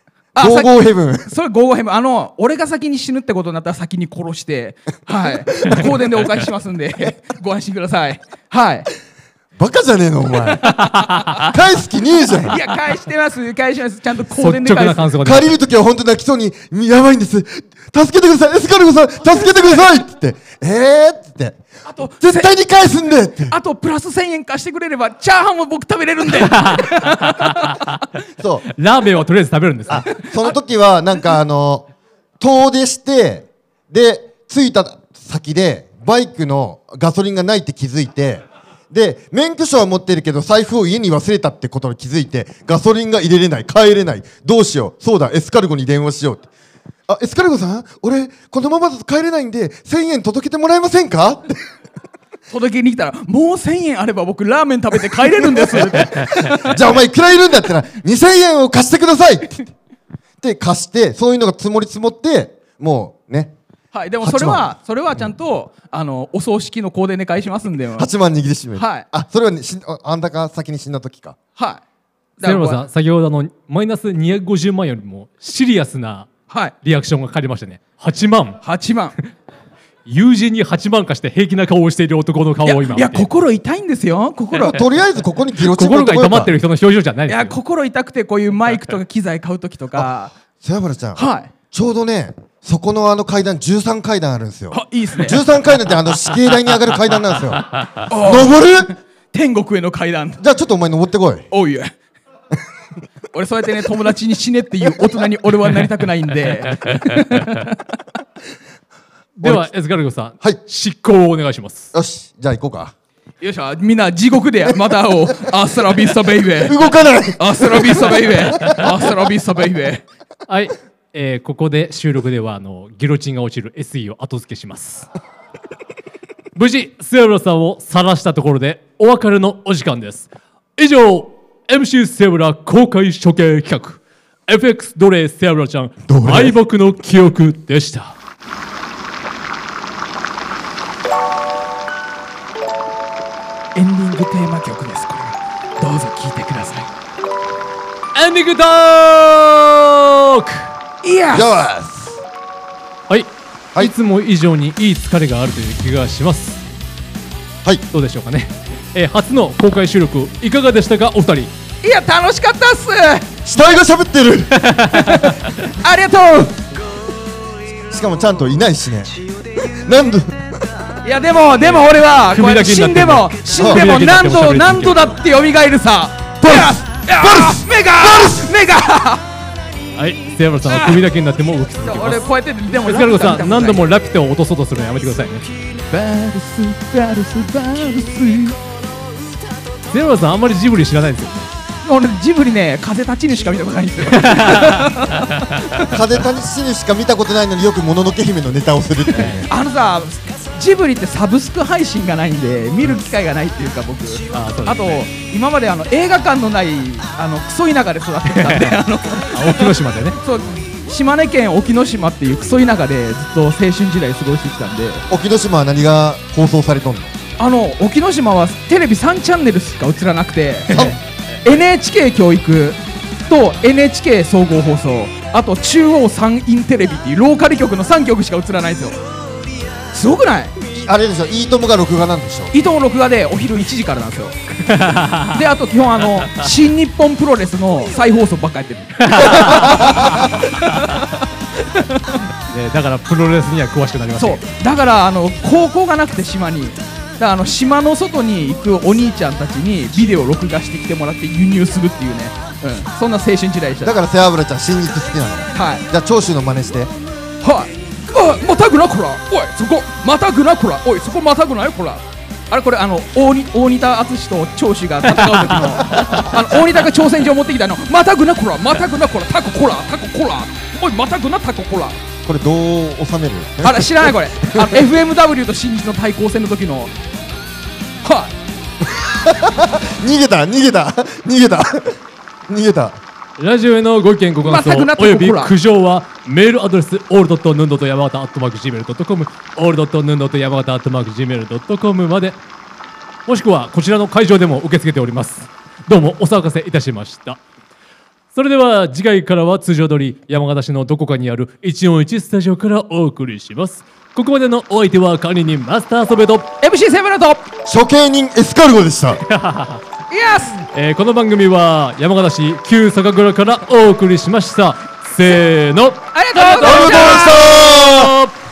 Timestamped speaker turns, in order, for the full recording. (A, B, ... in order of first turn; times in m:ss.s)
0:00.4-0:08.9 A
0:00.4-0:01.3 B
0:09.6-0:12.6 B
0:10.6-0:11.3 C
0:11.0-0:11.5 A
0:12.4-0:15.1 A
0:14.3-0:15.5 C
0:15.2-0:21.6 B
0:19.4-0:19.6 A
0:21.8-0:22.5 A
0:22.2-0:23.6 B
0:23.5-0:27.8 A
0:26.4-0:28.0 C
0:28.4-0:28.6 B
0:28.8-0:30.1 C
0:29.9-0:31.9 B
0:30.2-0:30.6 A
0:32.4-0:46.5 B
0:47.1-0:51.6 B
0:52.5-0:56.6 A
0:55.3-0:59.7 B
1:00.4-1:03.5 B
1:03.9-1:08.1 A
1:04.2-1:04.7 B
1:08.0-1:11.4 B
1:08.8-1:09.0 A
1:11.6-1:11.8 A
1:12.4-1:12.8 A
1:12.4-1:16.3 C
1:16.5-1:16.7 A
1:16.8-1:18.6 C
1:18.6-1:19.2 A
1:20.1-1:23.3 C
1:22.6-1:24.8 A
1:24.6-1:26.6 B
1:25.6-1:27.6 C
1:27.3-1:30.3 A
1:30.6-1:38.9 B
1:31.2-1:31.5 A
1:34.7-1:35.4 A
1:38.1-1:40.4 A
1:40.4-1:41.5 B
1:41.5-1:41.9 A
1:43.3-1:47.8 A
1:49.4-1:51.9 C
1:49.4-1:49.7 B
1:51.9-1:52.9 B
1:53.4-1:56.8 A
1:56.6-1:58.7 B
1:57.4-2:00.0 A
2:00.5-2:05.1 C
2:06.6-2:18.2 C
2:16.1-2:16.6 B
2:23.8-2:26.9 A
2:28.2-2:30.7 C
2:31.0-2:31.6 A
2:31.3-2:32.2 B
2:33.1-2:36.6 C
2:37.9-2:41.5 C
2:41.8-2:43.3 A
2:43.4-2:44.6 B
2:44.6-2:45.5 C
2:45.2-2:46.6 A
2:47.9-2:50.5 B
2:51.0-2:59.2 A
2:51.6-2:55.2 C
2:53.6-2:53.9 B
2:56.4-2:58.5 B
3:00.0-3:05.5 C
3:00.7-3:01.0 A
3:01.8-3:03.8 A
3:05.9-3:08.6 A
3:09.9-3:11.5 C
3:11.8-3:15.3 A
3:14.1-3:15.9 C
3:15.8-3:19.5 B
3:19.1-3:19.4 C
3:19.5-3:35.1 A
3:24.3-3:25.0 C
3:28.4-3:30.2 C
3:35.1-3:37.1 B
3:37.4-3:49.0 A
3:40.7-3:41.0 B
3:49.9-3:50.6 A
3:50.7-3:52.5 B
3:52.5-3:54.4 A
3:54.7-3:55.4 C
3:55.3-4:02.2 A
3:59.0-4:00.2 C
4:02.5-4:04.4 C
4:04.2-4:14.0 A
4:13.8-4:16.9 B
4:15.5-4:15.8 A
4:17.4-4:32.0 A
4:25.3-4:26.3 C
4:32.2-4:34.9 B
4:33.6-4:36.9 A
4:38.0-4:38.3 A
4:38.9-4:42.0 B
4:42.5-4:43.0 B
4:43.4-4:52.4 C
4:44.4-4:45.5 A
4:53.3-4:57.4 C
4:58.3-5:06.5 C
5:06.6-5:07.5 A
5:07.7-5:09.2 B
5:09.2-5:09.8 C
5:10.1-5:10.6 A
5:10.7-5:18.3 C
5:16.1-5:17.5 A
5:16.6-5:18.2 B